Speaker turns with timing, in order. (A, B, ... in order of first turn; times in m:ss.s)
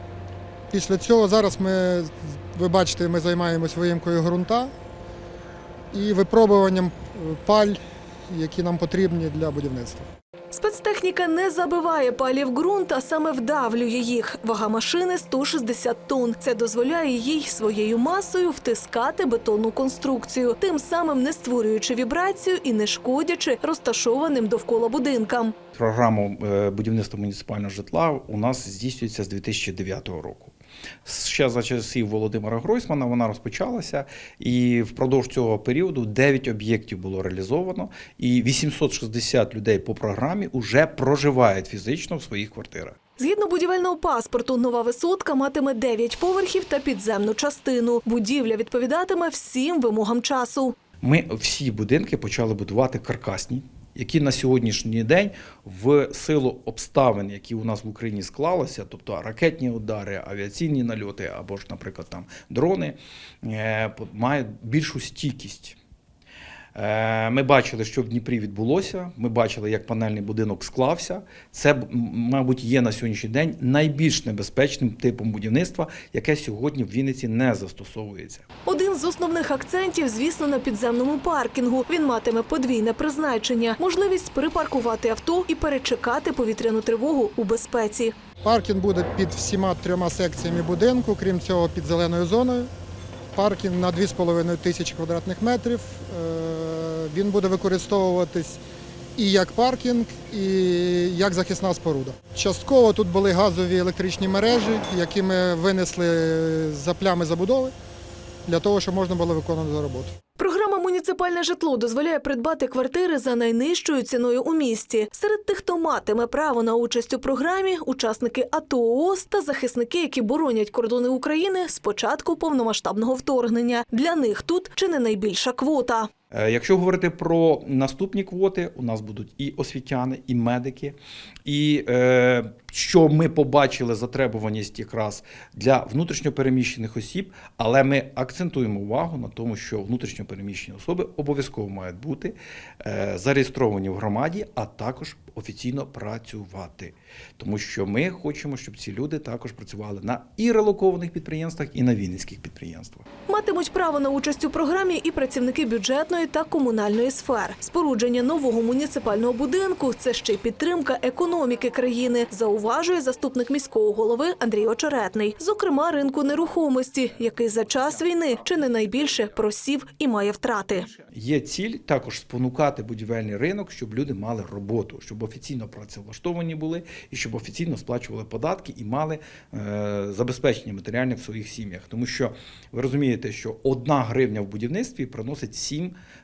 0:00.7-0:04.7 A
0:05.9-0:10.1 A
0:10.5-0:25.6 B
0:25.7-0:43.0 C
0:43.2-0:50.8 B
0:51.0-1:05.8 C
1:06.8-1:18.4 C
1:18.7-1:28.1 B
1:28.4-1:32.7 A
1:33.3-1:38.6 A
1:39.2-1:47.7 A
1:48.4-1:50.1 A
1:50.4-2:06.1 B
2:06.3-2:33.1 C
2:33.3-2:50.9 B
2:51.1-3:06.0 C